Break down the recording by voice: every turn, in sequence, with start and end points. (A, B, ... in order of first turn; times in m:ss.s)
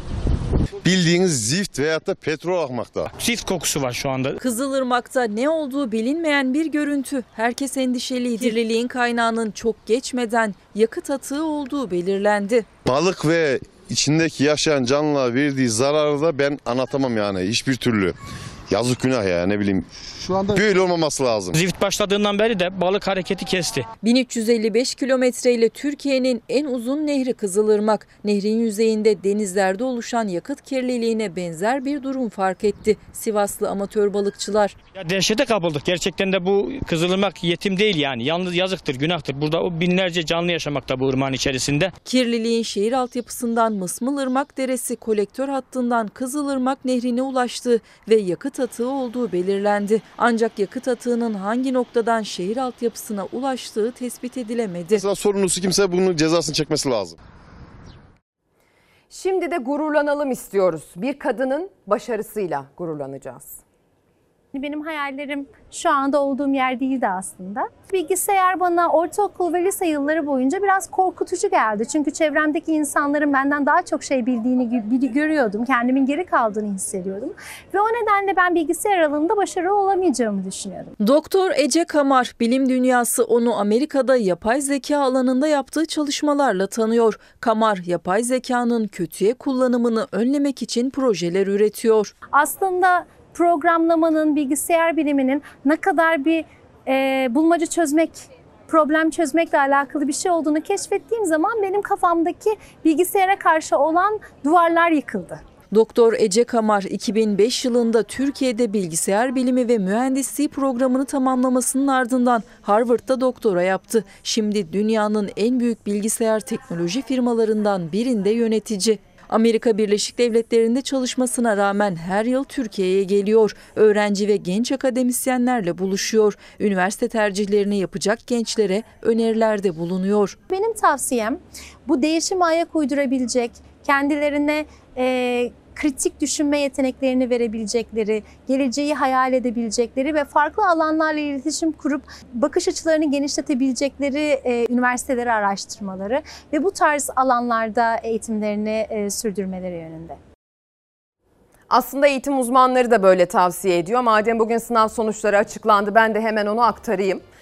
0:00.8-0:03.1 A
0:03.2-0:04.4 B
0:04.4-0:12.7 C
0:12.9-0:18.2 A
0:18.7-0:19.9 A
0:20.5-0:21.5 A
0:21.5-0:23.9 B
0:24.0-0:34.8 C
0:35.0-0:41.9 B
0:42.0-0:55.0 C
0:54.9-0:57.2 A
0:59.1-1:03.6 D
1:04.5-1:20.9 E
1:21.0-1:32.1 C
1:32.3-1:45.4 E
1:45.7-2:10.4 C
2:10.5-2:30.2 E
2:31.7-2:37.2 D